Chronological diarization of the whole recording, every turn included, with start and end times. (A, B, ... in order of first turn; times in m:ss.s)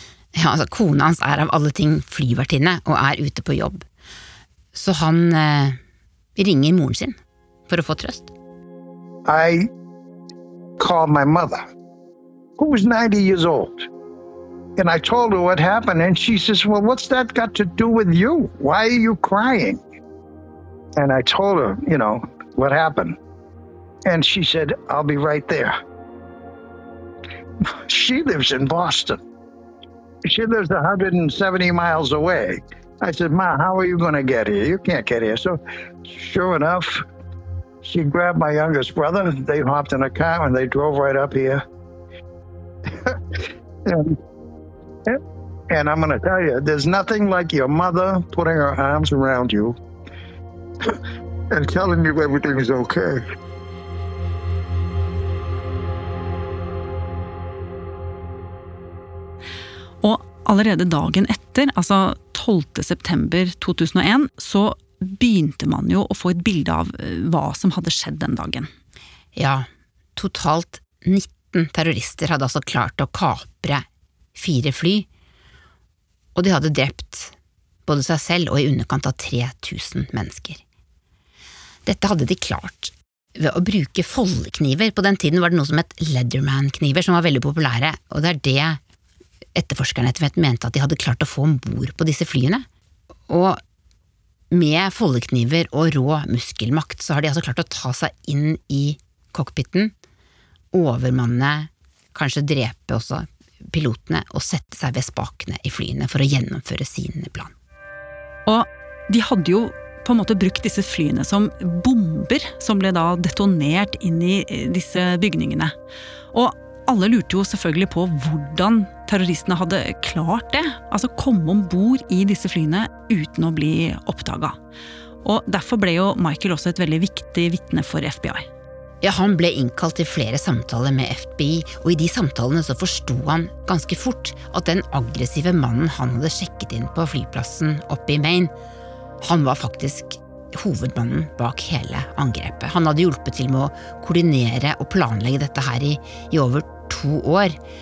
0:00.4-0:03.8 A
0:04.7-0:05.8 A
0:06.4-0:07.2 A
0:07.7-0:08.3 A
0:09.3-0:09.7 B
0:10.8-0:11.6 B
0:12.6-0:13.9 B
0:14.8-0:19.8 B
0:21.0-0:23.2 B
0:24.0-0:25.8 B
0:27.6-0:29.2 B
0:30.3-0:37.0 B
0:37.8-0:41.6 B
0:42.9-0:44.2 B
0:45.1-0:49.8 B
0:51.5-0:53.2 B
1:00.0-1:08.7 C
1:09.4-1:15.1 A
1:16.4-1:17.3 A
1:17.9-1:20.6 A
1:21.8-1:28.8 A
1:29.6-1:32.6 A
1:33.3-1:33.6 A
1:34.5-1:39.9 A
1:40.7-1:47.5 A
1:48.5-1:55.7 C
1:56.3-2:04.6 C
2:05.2-2:08.5 C
2:09.0-2:18.5 A
2:19.2-2:27.6 A